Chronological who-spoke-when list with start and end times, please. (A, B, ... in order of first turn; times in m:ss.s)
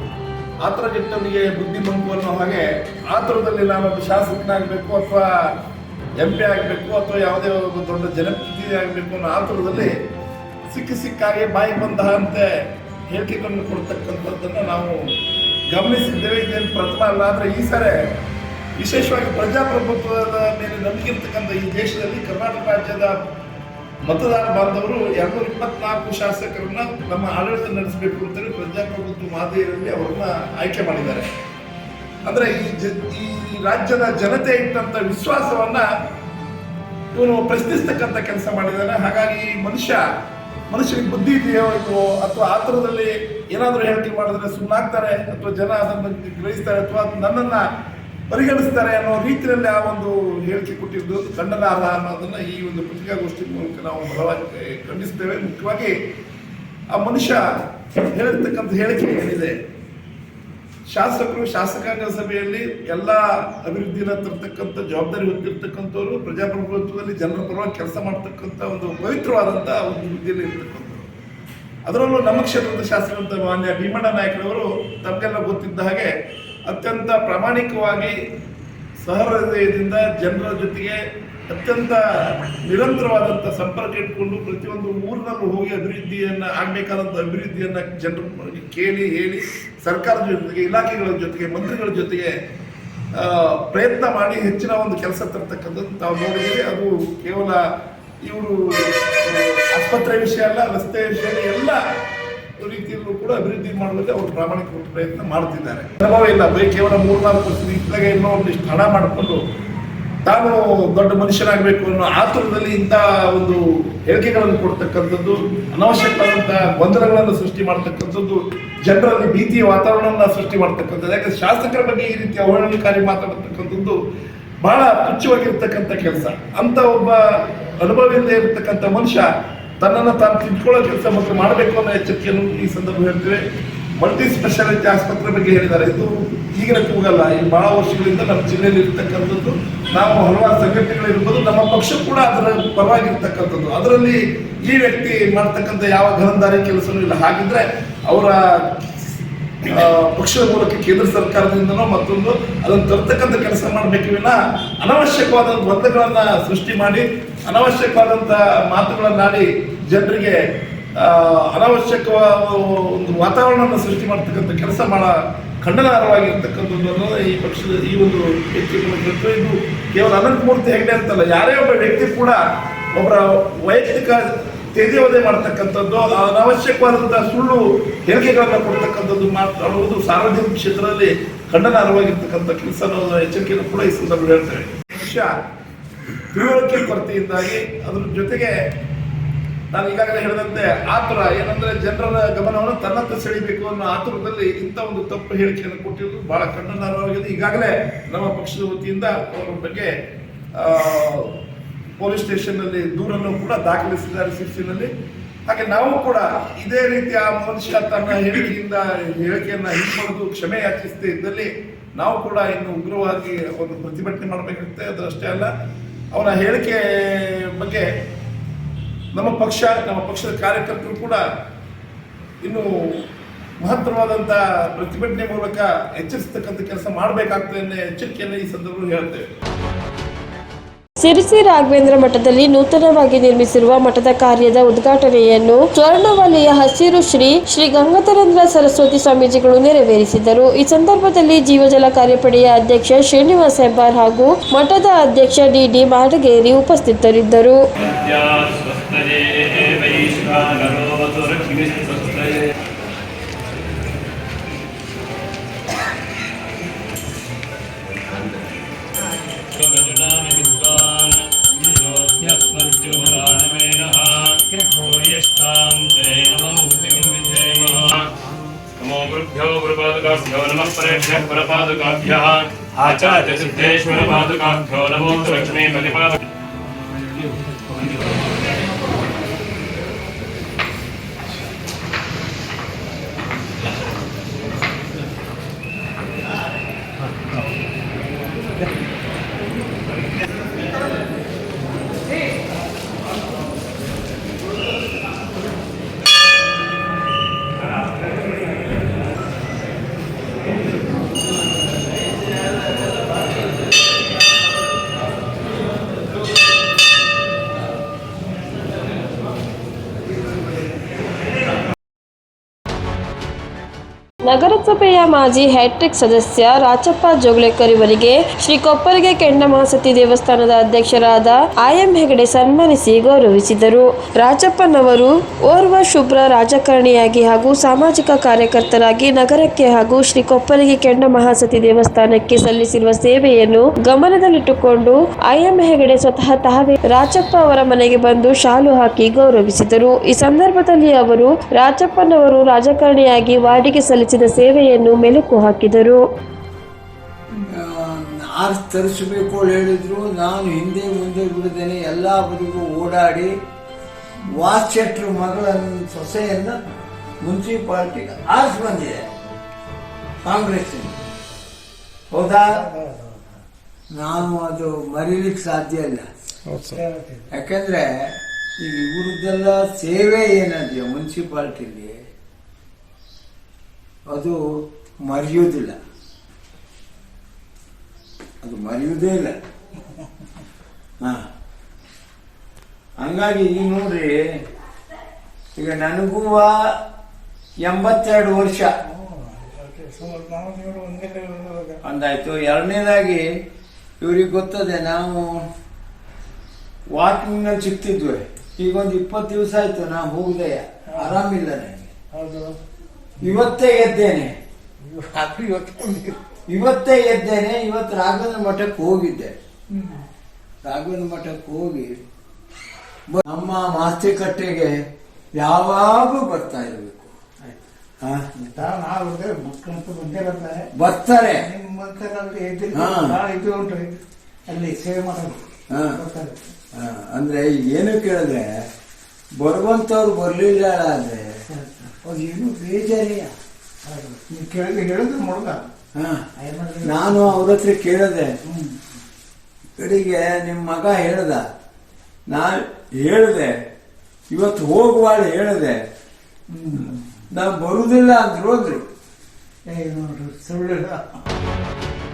0:00.6-0:05.3 A
0:06.2-0:09.9 A
0:10.7-0:12.5 A
0:13.1-0:15.0 A
0:15.7-0:18.0 A
0:18.8-0:23.1 A
0:24.0-0:31.2 A
0:32.2-0:35.8 A
0:37.1-0:40.0 A
0:40.7-0:47.6 A
0:48.3-0:55.9 A
0:56.9-0:57.4 A
0:58.1-0:59.5 A
1:00.9-1:11.0 A
1:11.8-1:16.1 A
1:16.7-1:18.1 A
1:19.0-1:21.0 A
1:21.5-1:32.3 A
1:33.2-1:37.6 A
1:38.2-1:38.6 A
1:39.2-1:41.8 A
1:42.6-1:49.4 A
1:50.2-2:04.0 A
2:04.6-2:07.2 A
2:07.8-2:09.3 A
2:09.8-2:13.4 A
2:14.0-2:28.3 A
2:29.7-2:40.4 A
2:41.0-2:45.1 A
2:45.6-2:52.4 A
2:52.9-2:54.2 A
2:54.7-3:05.3 A
3:06.3-3:08.5 A
3:09.7-3:19.9 A
3:20.6-3:21.2 A
3:22.0-3:24.9 A
3:25.5-3:35.5 A
3:36.1-3:37.8 A
3:39.1-3:41.2 A
3:43.6-3:49.2 A
3:51.0-4:07.6 B
4:07.8-4:12.4 C
4:19.6-4:28.1 C
4:28.8-4:36.2 C
5:14.2-5:46.0 B
5:47.4-5:53.4 D
5:54.2-5:56.6 D
5:57.2-5:59.1 D
6:00.2-6:01.0 D
6:02.1-6:02.7 D
6:03.9-6:06.1 D
6:06.8-6:07.2 E
6:07.3-6:07.9 D
6:08.6-6:12.0 D
6:14.1-6:14.4 D
6:15.0-6:15.8 D
6:18.4-6:19.3 D
6:23.0-6:24.1 D
6:25.6-6:26.6 D
6:27.6-6:28.7 D
6:29.6-6:31.8 E
6:31.8-6:33.2 D
6:34.0-6:35.4 D
6:36.9-6:41.9 D
6:42.2-6:42.5 E
6:43.2-6:44.4 D
6:44.9-6:46.1 E
6:46.5-6:49.4 D
6:50.6-6:51.9 D
6:53.1-6:54.8 D
6:55.4-6:57.1 D
6:58.0-6:58.3 D
6:58.6-7:00.6 E
7:00.8-7:01.5 D
7:01.6-7:04.0 E
7:02.7-7:03.2 D
7:04.5-7:05.4 E
7:05.7-7:06.0 D
7:06.1-7:06.4 E
7:06.8-7:08.5 D
7:09.4-7:11.2 D
7:11.6-7:12.0 E
7:12.1-7:13.3 D
7:13.9-7:15.7 E
7:16.0-7:16.2 D
7:16.4-7:17.3 E
7:16.8-7:18.3 D
7:19.8-7:21.4 D
7:22.3-7:23.6 D
7:24.3-7:25.8 D
7:27.3-7:28.8 D
7:29.7-7:30.9 E